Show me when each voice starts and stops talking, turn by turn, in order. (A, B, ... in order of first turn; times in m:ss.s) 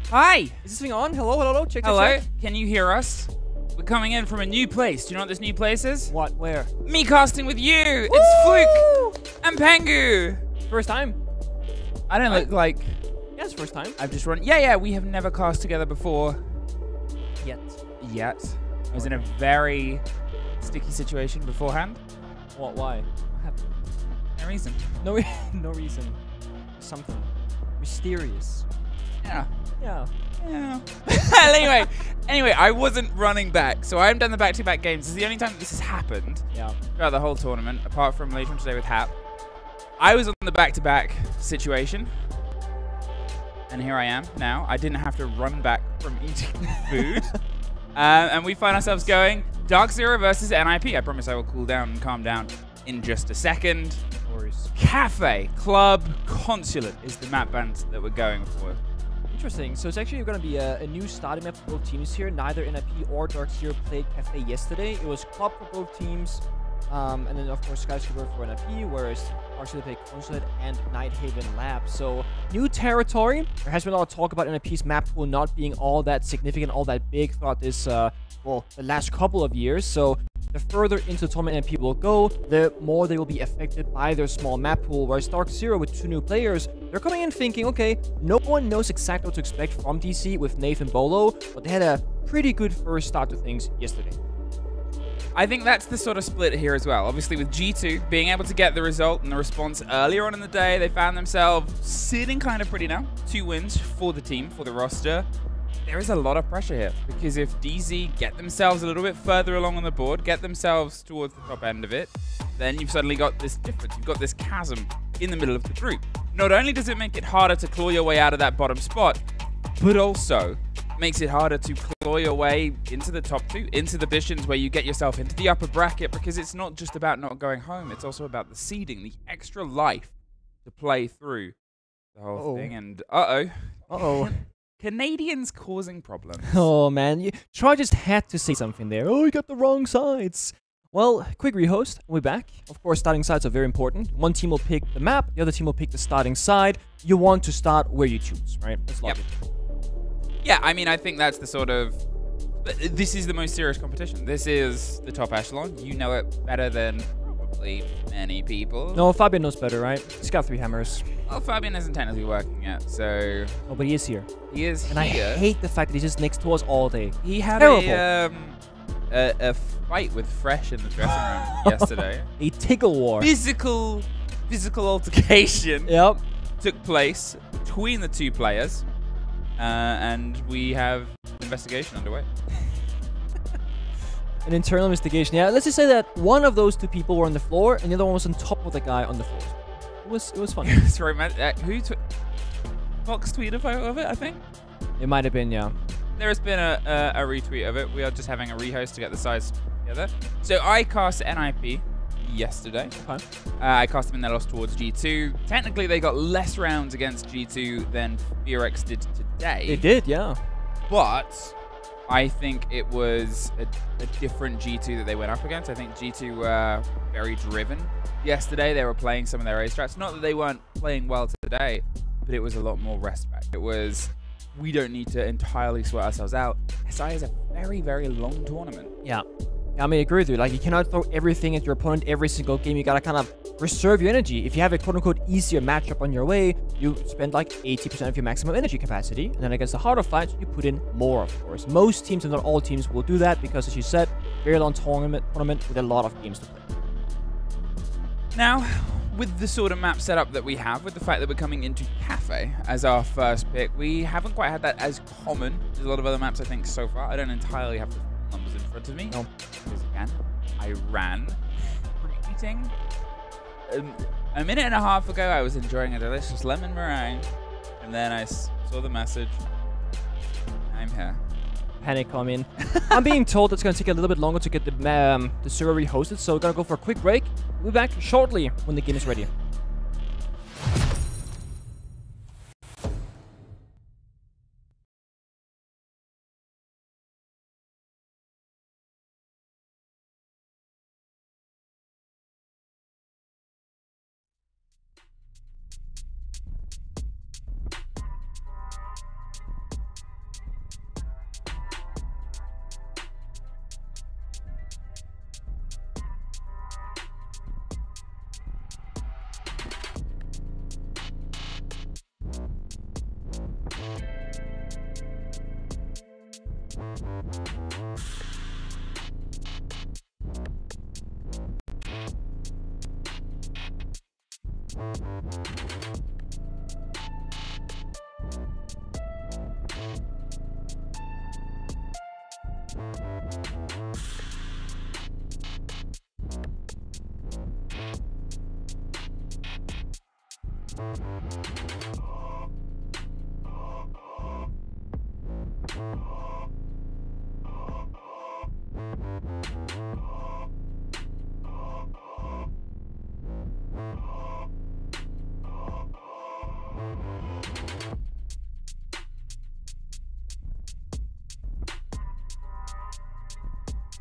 0:00.1-0:00.6 A
0:00.6-0:02.2 B
0:01.8-0:06.1 A
0:06.1-0:06.7 B
0:06.8-0:08.9 A
0:08.1-0:09.2 B
0:09.4-0:10.4 A
0:10.7-0:11.2 B
0:12.1-0:13.0 A
0:13.4-0:14.0 B
0:14.0-0:16.4 A
0:17.4-0:17.8 B
0:18.0-0:20.0 A
0:18.9-0:19.3 B
0:20.6-0:22.0 A
0:22.6-0:23.7 B
0:24.4-0:25.0 A
0:25.0-0:26.2 B
0:26.8-0:28.7 B
0:29.2-0:29.5 A
0:29.8-0:30.1 B
0:30.4-0:39.1 A
0:40.0-0:42.1 A
0:43.7-0:47.3 A
0:47.0-0:47.4 B
0:48.0-0:54.0 A
0:54.3-0:54.7 B
0:54.8-0:58.8 A
0:59.3-1:34.2 B
1:35.4-1:45.3 A
1:45.9-1:59.2 A
1:59.8-2:10.1 A
2:10.6-2:11.6 A
2:12.2-2:16.6 A
2:12.4-2:12.7 B
2:13.9-2:14.4 B
2:16.5-2:29.3 B
2:30.4-2:32.0 A
2:32.6-2:39.1 A
2:38.9-2:41.1 B
2:41.3-2:43.6 A
2:43.7-2:44.3 B
2:44.5-2:45.4 A
2:44.9-2:48.0 B
2:47.2-2:48.6 A
2:49.1-2:52.3 A
2:51.6-2:53.3 B
2:53.2-2:56.0 A
2:55.9-2:56.2 B
2:56.6-2:58.8 A
2:59.6-3:02.3 A
3:04.4-3:10.8 B
3:10.6-3:12.0 A
3:13.0-3:14.4 A
3:15.0-3:15.7 B
3:16.2-3:22.9 A
3:23.0-3:23.2 B
3:23.6-3:29.8 A
3:29.7-3:30.4 B
3:30.9-3:31.5 A
3:32.1-3:48.9 A
3:49.8-4:06.7 B
4:08.3-4:21.4 A
4:22.0-4:22.7 A
4:23.7-4:27.3 A
4:27.8-4:29.4 A
4:30.7-4:31.2 A
4:31.8-4:39.3 B
4:32.6-4:33.1 A